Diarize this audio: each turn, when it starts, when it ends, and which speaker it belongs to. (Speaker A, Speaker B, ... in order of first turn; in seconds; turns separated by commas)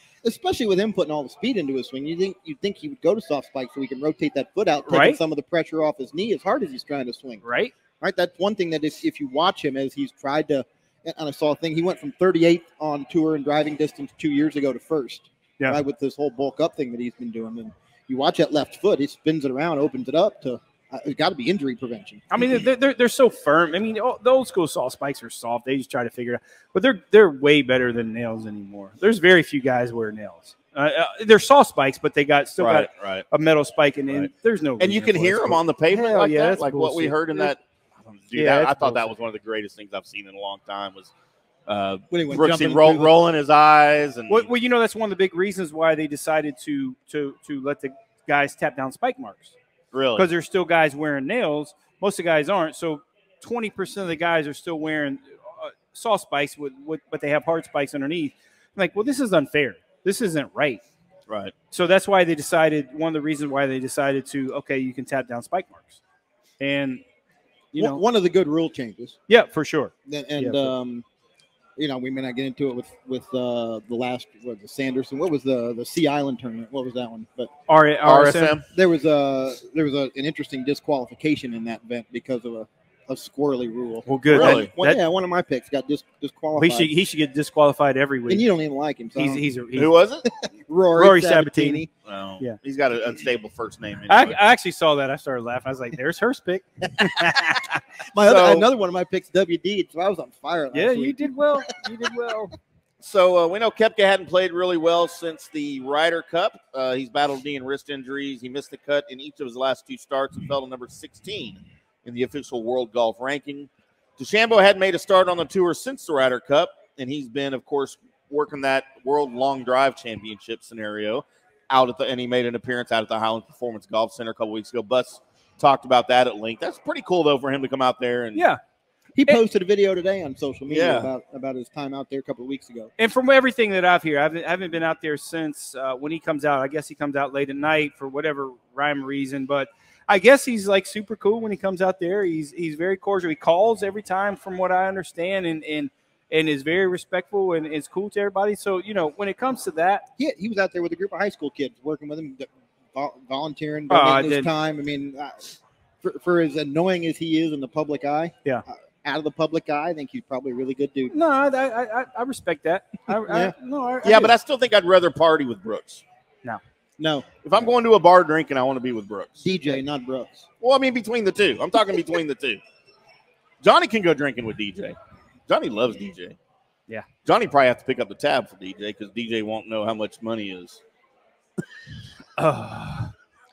Speaker A: 0.2-7.4, Speaker B: 4.9-5.2, Speaker B: 7.4-7.8, Speaker A: 8.0-22.4, Speaker B: 22.3-37.5, Speaker C: 32.6-33.2, Speaker C: 34.8-41.1, Speaker B: 38.3-39.1, Speaker C: 41.7-44.5, Speaker A: 42.1-43.1, Speaker B: 44.3-49.5, Speaker C: 49.9-50.3, Speaker B: 50.1-60.8, Speaker C: 61.3-61.5, Speaker B: 61.7-66.0, Speaker B: 66.6-67.0, Speaker B: 67.7-68.0, Speaker A: 67.7-69.2, Speaker B: 69.3-70.7, Speaker A: 70.0-71.0, Speaker A: 71.8-77.5, Speaker B: 77.7-78.6, Speaker C: 78.0-78.7, Speaker A: 78.7-86.9, Speaker B: 84.0-85.0, Speaker C: 84.3-84.7, Speaker B: 86.5-88.5, Speaker A: 88.3-89.5, Speaker B: 89.1-90.0, Speaker C: 89.8-90.2, Speaker A: 90.2-91.9, Speaker B: 90.9-91.9, Speaker C: 92.0-94.4, Speaker B: 94.1-97.7, Speaker A: 97.0-97.3, Speaker A: 98.1-102.3, Speaker C: 98.3-98.6, Speaker B: 100.7-102.5, Speaker C: 103.0-128.5, Speaker A: 129.2-132.9, Speaker C: 130.7-131.1, Speaker B: 133.0-150.0, Speaker A: 150.2-161.2, Speaker B: 153.9-154.5, Speaker B: 161.1-164.3, Speaker A: 163.1-163.5, Speaker C: 164.0-166.0, Speaker A: 167.0-167.6, Speaker C: 167.4-169.5, Speaker A: 169.4-170.5, Speaker C: 170.6-172.6, Speaker C: 173.6-174.9, Speaker C: 175.5-176.4, Speaker C: 177.2-180.8, Speaker B: 182.4-183.1